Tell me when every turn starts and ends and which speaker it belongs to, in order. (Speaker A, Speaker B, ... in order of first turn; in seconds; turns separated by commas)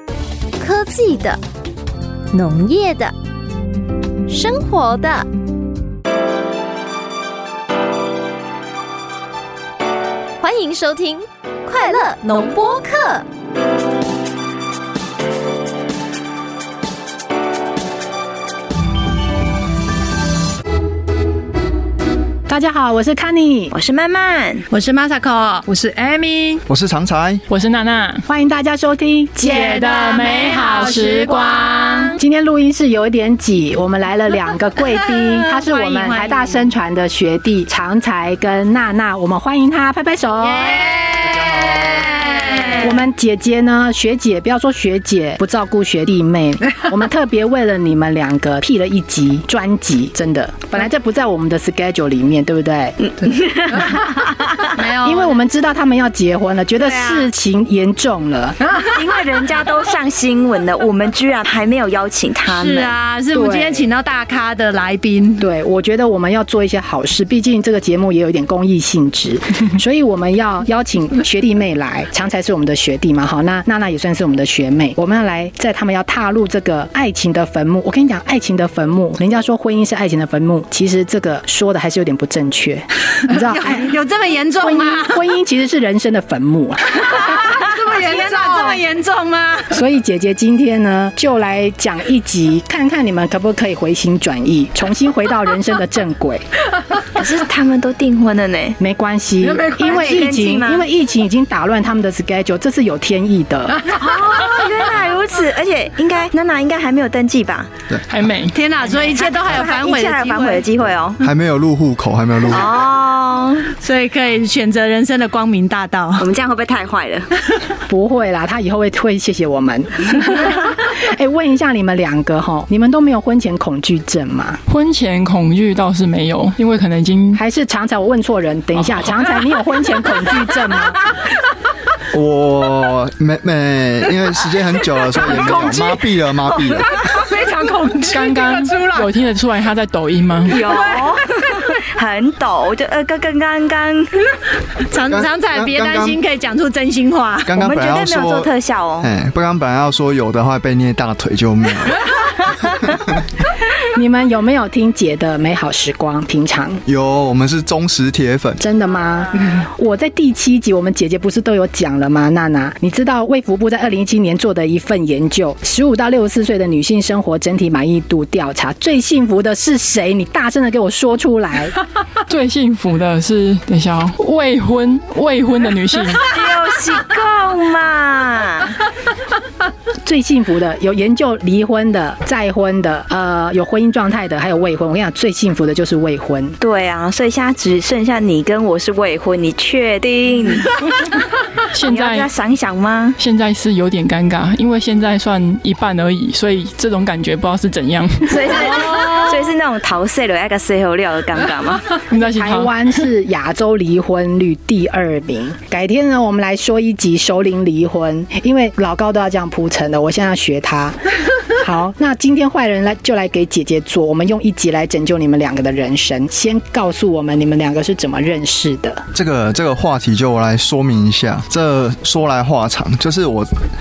Speaker A: 0.6-1.4, Speaker A: 2.3-3.1, Speaker A: 4.3-5.3, Speaker A: 10.4-13.2, Speaker B: 22.5-23.7, Speaker C: 23.7-24.7, Speaker D: 24.7-25.7, Speaker E: 25.7-26.6, Speaker F: 26.7-27.4, Speaker G: 27.5-28.3, Speaker B: 28.3-30.0, Speaker D: 29.4-32.2, Speaker G: 30.1-31.9, Speaker B: 32.2-40.9, Speaker D: 35.1-36.7, Speaker D: 40.4-43.0, Speaker B: 42.8-53.1, Speaker C: 53.2-54.6, Speaker B: 53.7-54.2, Speaker D: 54.7-55.4, Speaker B: 55.0-58.7, Speaker C: 56.8-57.2, Speaker C: 58.8-62.9, Speaker D: 62.5-65.5, Speaker B: 63.3-63.9, Speaker B: 65.4-83.9, Speaker D: 83.3-85.2, Speaker B: 84.6-87.6, Speaker D: 87.1-89.8, Speaker E: 87.8-88.8, Speaker B: 89.7-96.5, Speaker C: 97.2-98.8, Speaker B: 98.8-103.9, Speaker D: 99.4-100.2, Speaker C: 99.8-100.9, Speaker C: 103.9-107.7, Speaker G: 108.1-108.6, Speaker D: 108.5-110.7, Speaker C: 108.9-111.2, Speaker F: 111.2-112.7, Speaker C: 112.5-113.7, Speaker D: 113.7-116.3, Speaker C: 116.2-117.3, Speaker B: 117.9-124.6, Speaker G: 124.7-127.4, Speaker B: 127.4-131.1, Speaker G: 128.8-129.1, Speaker F: 132.1-137.0, Speaker D: 137.1-139.0, Speaker G: 138.1-140.6, Speaker C: 140.5-144.1, Speaker D: 144.9-147.5, Speaker F: 145.1-146.2, Speaker F: 147.5-152.2, Speaker C: 147.6-149.1, Speaker F: 152.8-153.2, Speaker B: 153.9-156.8, Speaker F: 156.9-158.6, Speaker B: 158.6-171.8, Speaker G: 172.3-176.3, Speaker C: 176.2-178.8, Speaker B: 180.1-186.6, Speaker C: 186.6-190.8, Speaker G: 191.7-192.3, Speaker C: 191.8-193.2, Speaker G: 193.2-198.7, Speaker C: 198.3-201.9, Speaker G: 202.1-203.0, Speaker B: 202.1-211.0, Speaker B: 211.5-219.0, Speaker F: 219.1-223.6